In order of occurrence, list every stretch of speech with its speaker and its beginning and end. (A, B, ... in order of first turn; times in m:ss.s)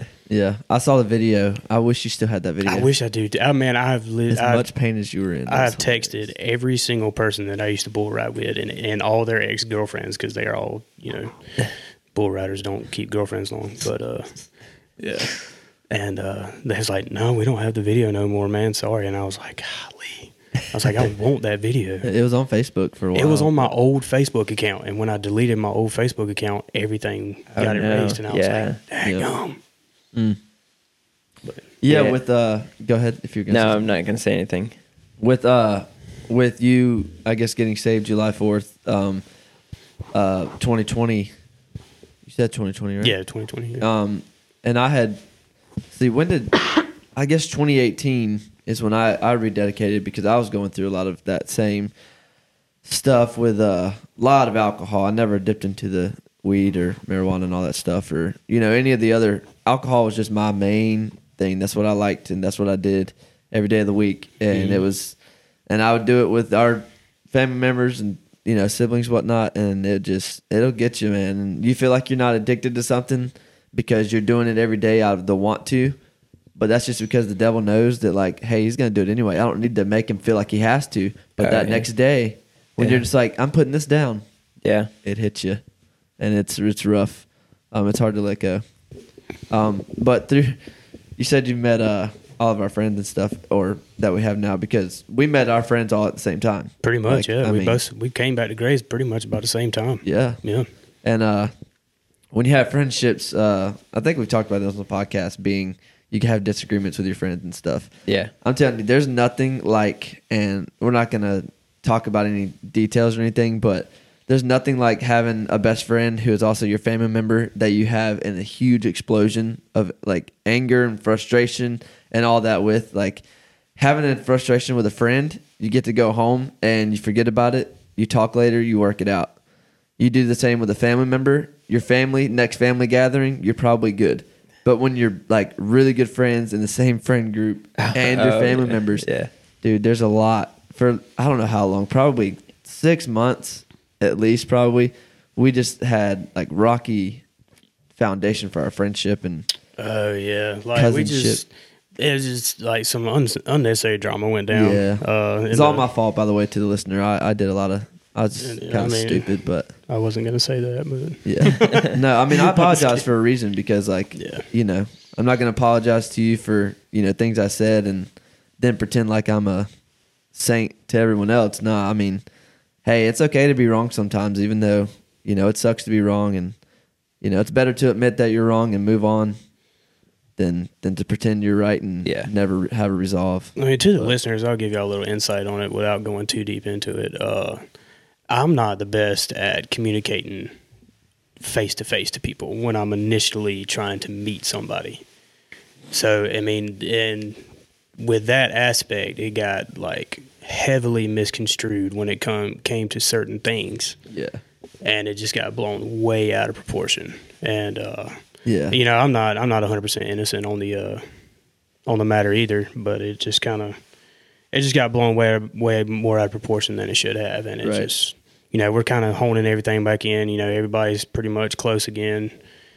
0:00.3-0:02.9 A
0:02.6-0:04.7 B
0:04.3-0:06.3 A
0:05.5-0:11.4 B
0:12.1-0:14.4 B
0:15.0-0:15.4 B
0:15.9-0:22.1 B
0:22.0-0:23.7 A
0:23.1-0:29.6 B
0:27.5-0:28.8 C
0:31.8-0:33.9 A
0:31.9-0:32.2 C
0:33.5-0:34.7 C
0:35.2-0:39.2 A
0:40.1-0:41.3 A
0:42.2-0:43.1 A
0:43.0-0:43.8 B
0:43.8-0:45.2 A
0:45.9-0:51.9 A
0:52.8-1:05.2 A
1:05.7-1:16.0 A
1:16.5-1:24.2 A
1:21.4-1:21.9 C
1:22.8-1:23.0 C
1:24.6-1:24.9 C
1:25.0-1:25.6 A
1:26.2-1:28.6 A
1:29.5-1:30.6 A
1:31.2-1:37.8 A
1:36.8-1:40.7 B
1:40.0-1:40.4 A
1:41.0-1:41.5 A
1:42.3-1:47.9 A
1:48.1-1:48.3 C
1:48.4-2:03.2 A
2:03.8-2:09.3 A
2:10.0-2:19.1 A
2:17.8-2:19.3 C
2:19.6-2:27.2 A
2:28.0-2:29.5 A
2:29.8-2:35.8 B
2:30.7-2:31.4 A
2:34.5-2:39.7 A
2:38.4-2:39.3 B
2:39.9-2:43.0 B
2:41.2-2:49.7 A
2:41.6-2:41.9 C
2:44.2-2:44.4 B
2:50.3-2:52.2 A
2:52.8-2:56.6 A
2:57.2-2:59.4 A
3:00.4-3:04.1 A
3:03.6-3:07.6 B
3:08.3-3:10.5 B
3:11.4-3:15.0 B
3:15.9-3:17.4 B
3:18.0-3:24.0 B
3:24.1-3:24.4 A
3:24.8-3:28.2 B
3:28.4-3:28.8 A
3:28.7-3:31.0 B
3:31.8-3:33.8 B
3:34.5-3:42.3 B
3:37.6-3:37.9 A